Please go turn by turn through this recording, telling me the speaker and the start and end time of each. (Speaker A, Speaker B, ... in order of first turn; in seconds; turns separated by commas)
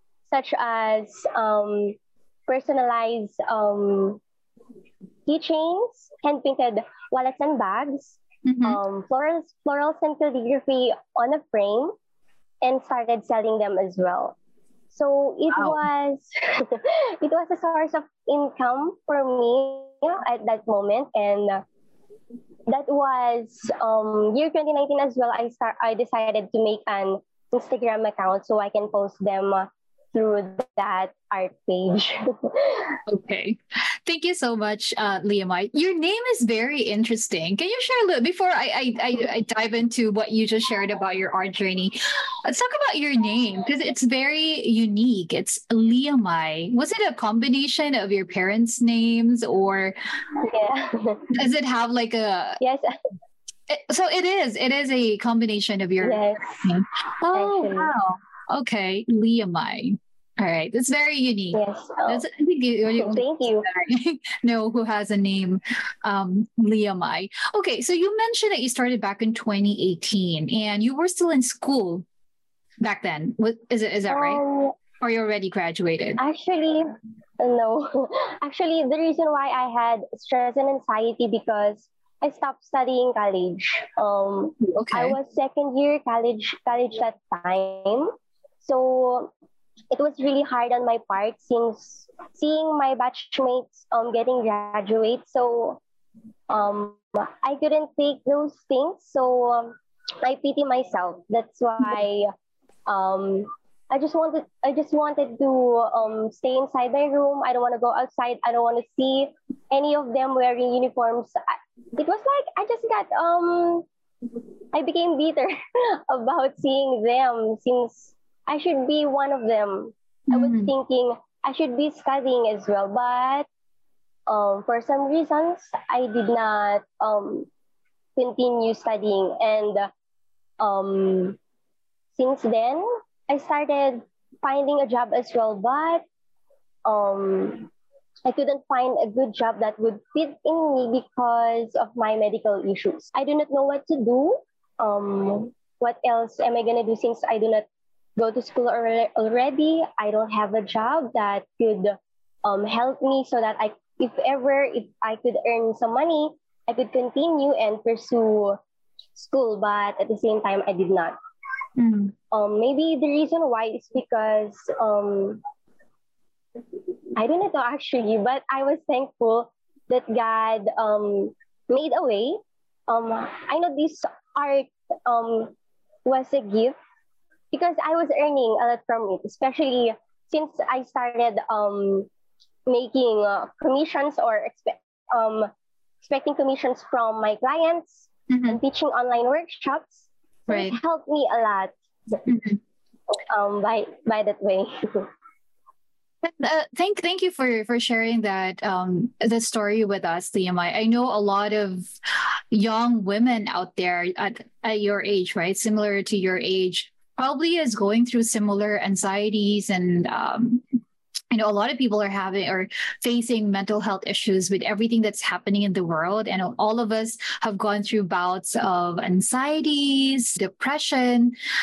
Speaker A: 0.3-4.2, Speaker A: 5.3-11.9, Speaker B: 8.4-8.8, Speaker A: 12.6-14.4, Speaker A: 14.9-21.6, Speaker B: 15.5-15.8, Speaker A: 22.7-33.0, Speaker B: 33.1-50.0, Speaker A: 50.4-51.3, Speaker B: 51.3-52.6, Speaker A: 52.6-52.9, Speaker B: 53.7-72.0, Speaker A: 56.0-56.7, Speaker A: 57.3-57.9, Speaker A: 61.5-62.2, Speaker A: 63.0-63.7, Speaker B: 72.8-74.4, Speaker A: 74.1-74.8, Speaker B: 75.0-76.2, Speaker A: 76.2-76.9, Speaker A: 77.4-89.3, Speaker B: 84.6-85.2, Speaker A: 89.9-95.8, Speaker A: 96.5-102.3, Speaker A: 102.9-113.9, Speaker A: 114.7-123.5, Speaker B: 120.3-120.7, Speaker A: 124.3-127.5, Speaker A: 128.2-129.9, Speaker A: 130.6-131.4, Speaker A: 132.1-136.1, Speaker A: 136.9-137.7, Speaker A: 138.2-147.7, Speaker A: 148.2-158.6, Speaker A: 159.2-161.2, Speaker B: 161.8-162.1, Speaker A: 162.3-165.4, Speaker A: 167.2-176.8, Speaker A: 177.5-182.1, Speaker A: 182.7-185.5, Speaker A: 186.0-192.2, Speaker B: 188.3-188.6, Speaker B: 190.5-190.8, Speaker B: 192.3-192.6, Speaker A: 193.3-195.1, Speaker B: 196.2-201.9, Speaker B: 202.5-210.6, Speaker B: 211.3-221.4